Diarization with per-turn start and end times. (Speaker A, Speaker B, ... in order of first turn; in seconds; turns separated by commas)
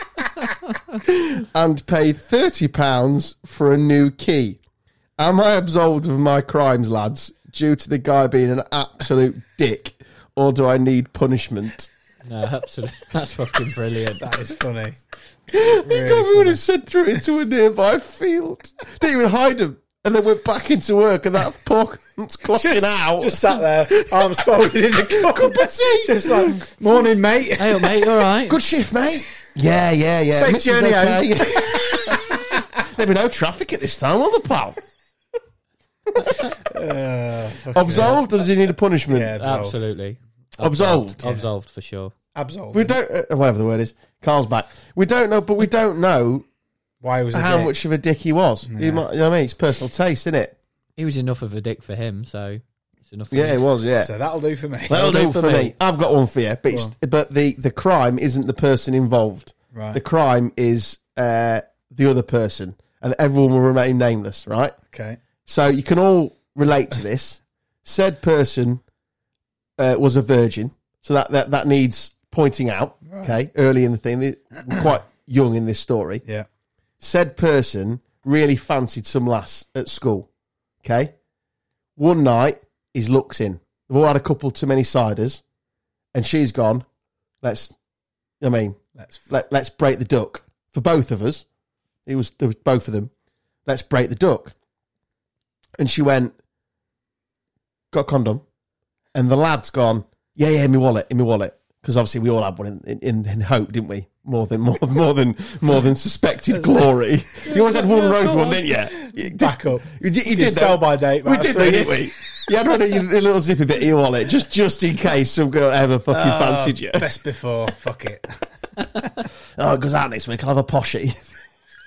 Speaker A: 1.0-4.6, Speaker A: 5.2-11.9, Speaker B: 12.2-14.2, Speaker C: 14.2-15.0, Speaker A: 15.5-26.9, Speaker C: 15.5-16.6, Speaker C: 22.5-28.1, Speaker B: 27.6-28.6, Speaker A: 28.4-34.8, Speaker C: 30.3-32.6, Speaker C: 36.6-38.2, Speaker A: 37.7-39.4, Speaker C: 39.1-39.8, Speaker B: 39.4-42.1, Speaker A: 40.6-41.2, Speaker C: 42.3-43.0, Speaker A: 42.7-46.5, Speaker C: 47.0-47.7, Speaker A: 47.3-50.6, Speaker C: 48.6-49.0, Speaker B: 51.0-53.6, Speaker A: 53.3-54.1, Speaker C: 54.0-55.1, Speaker A: 54.9-64.7, Speaker B: 55.0-55.7, Speaker C: 59.7-60.0, Speaker C: 64.9-65.2, Speaker A: 65.4-68.8, Speaker A: 69.8-76.2, Speaker C: 73.0-73.3, Speaker A: 77.0-80.3, Speaker A: 80.8-81.1, Speaker A: 82.0-85.4, Speaker A: 86.1-86.8, Speaker A: 87.4-87.7, Speaker A: 88.4-91.5, Speaker C: 89.0-89.2, Speaker A: 92.0-93.1, Speaker A: 93.7-94.5, Speaker A: 95.8-96.3, Speaker A: 97.9-98.4, Speaker A: 99.1-117.0, Speaker C: 106.5-106.9, Speaker C: 108.2-112.1, Speaker C: 116.1-118.4, Speaker A: 119.6-121.3